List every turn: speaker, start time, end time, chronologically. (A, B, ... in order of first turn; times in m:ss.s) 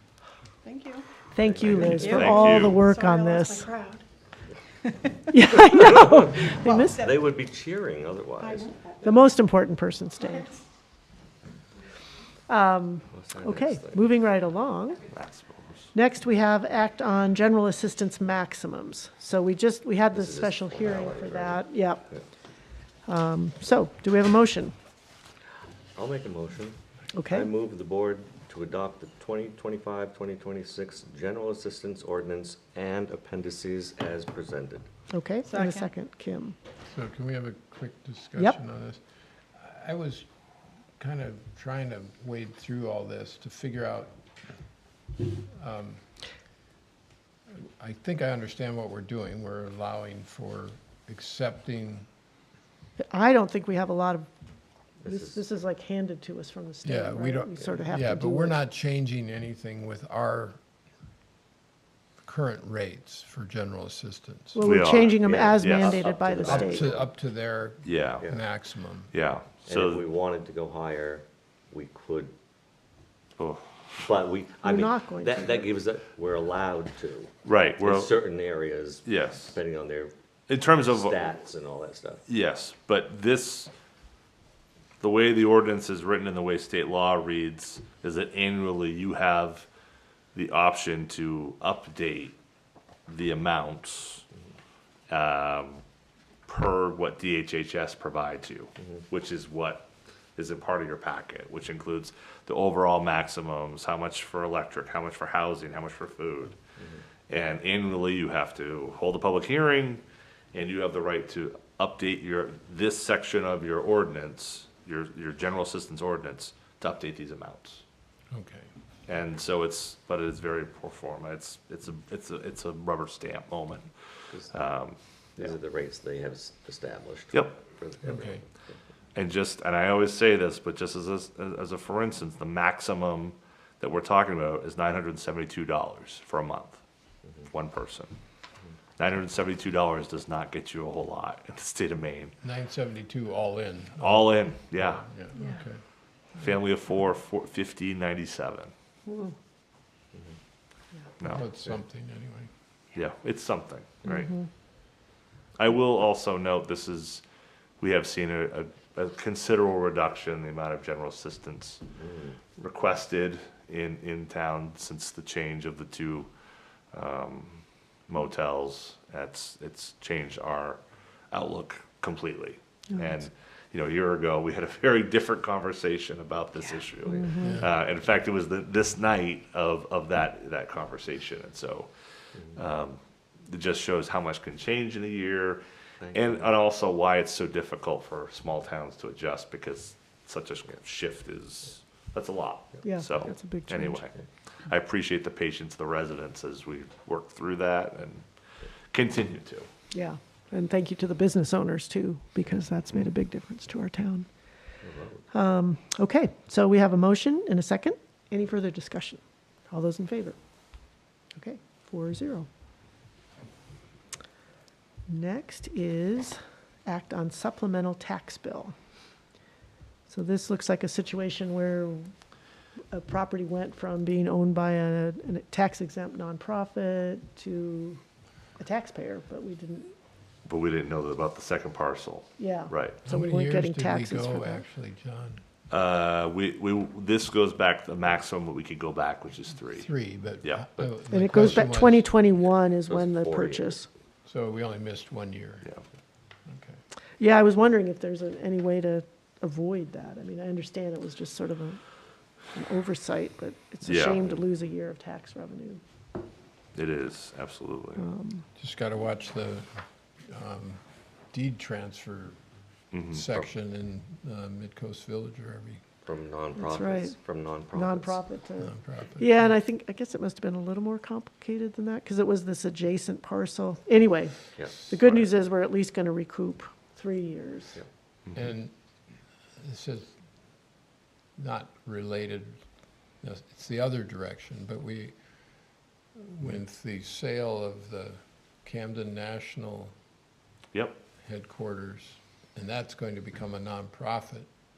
0:00.6-0:01.0 A
0:01.3-0:03.7 B
0:01.4-0:02.5 C
0:01.8-0:02.8 D
0:02.0-0:04.0 A
0:05.3-0:07.1 B
0:07.0-0:08.9 C
0:08.4-0:08.7 A
0:09.0-0:10.5 B
0:12.5-0:15.0 B
0:13.1-0:14.0 C
0:15.1-0:15.9 D
0:15.9-0:22.1 B
0:20.1-0:22.2 C
0:23.0-0:24.7 B
0:25.9-0:26.8 C
0:27.1-0:27.5 B
0:27.3-0:34.9 C
0:35.1-0:36.6 B
0:35.5-0:35.9 A
0:36.9-0:39.0 E
0:39.5-0:40.3 E
0:41.0-0:44.1 E
0:45.6-0:46.0 E
0:47.6-0:52.1 E
0:53.0-0:54.3 B
0:55.0-0:55.4 C
0:55.0-0:58.6 B
0:56.8-1:00.6 E
1:02.2-1:04.6 E
1:04.5-1:06.9 B
1:04.6-1:06.0 D
1:05.1-1:07.1 C
1:06.4-1:09.1 E
1:07.8-1:08.2 D
1:09.1-1:10.0 D
1:09.6-1:12.3 C
1:13.4-1:13.8 D
1:14.0-1:20.1 C
1:14.6-1:15.7 B
1:17.4-1:18.2 D
1:19.0-1:19.5 D
1:20.5-1:21.3 D
1:20.7-1:22.2 C
1:22.2-1:23.7 D
1:25.0-1:29.7 D
1:30.3-1:32.4 D
1:33.1-1:34.2 D
1:35.1-1:35.8 D
1:36.5-1:46.6 D
1:47.3-1:57.8 D
1:58.3-1:58.7 E
1:59.1-2:05.5 D
2:04.3-2:04.6 C
2:05.4-2:08.8 C
2:07.3-2:07.6 D
2:08.0-2:08.4 E
2:09.1-2:16.8 D
2:17.4-2:18.1 D
2:19.0-2:22.3 D
2:22.4-2:25.8 E
2:24.0-2:25.0 D
2:26.4-2:28.7 D
2:31.2-2:31.4 D
2:31.2-2:32.5 E
2:32.9-2:34.4 D
2:35.6-2:37.2 D
2:37.8-2:41.8 D
2:42.0-2:42.4 C
2:42.6-2:46.3 D
2:46.9-2:50.8 D
2:51.3-3:18.2 D
2:57.1-2:57.6 B
2:57.4-2:57.7 E
3:06.0-3:06.5 C
3:12.8-3:14.0 B
3:18.9-3:19.7 D
3:19.9-3:24.3 B
3:24.8-3:25.3 C
3:25.3-3:30.4 B
3:31.3-3:32.5 B
3:35.1-3:38.7 B
3:40.1-3:42.1 B
3:42.9-3:48.0 B
3:48.6-3:49.9 B
3:50.4-3:53.0 D
3:52.4-3:54.6 B
3:53.0-3:55.4 E
3:55.7-3:59.9 D
3:59.7-4:02.0 E
4:00.4-4:01.6 D
4:01.1-4:03.9 B
4:02.8-4:03.7 C
4:04.3-4:05.7 E
4:06.5-4:06.8 E
4:07.2-4:11.8 B
4:12.5-4:15.8 B
4:13.8-4:14.3 D
4:16.7-4:18.0 D
4:18.0-4:18.4 B
4:18.6-4:19.7 E
4:20.3-4:22.4 E
4:22.9-4:23.4 D
4:23.1-4:25.8 E
4:26.0-4:28.2 C
4:26.6-4:27.2 B
4:27.7-4:37.8 B
4:28.6-4:29.5 E
4:34.6-4:34.9 C
4:38.3-4:38.7 E
4:39.6-4:40.2 E
4:41.4-4:42.6 E
4:43.2-4:45.1 E
4:46.2-4:49.9 E
4:50.7-4:51.0 D
4:51.2-4:54.5 E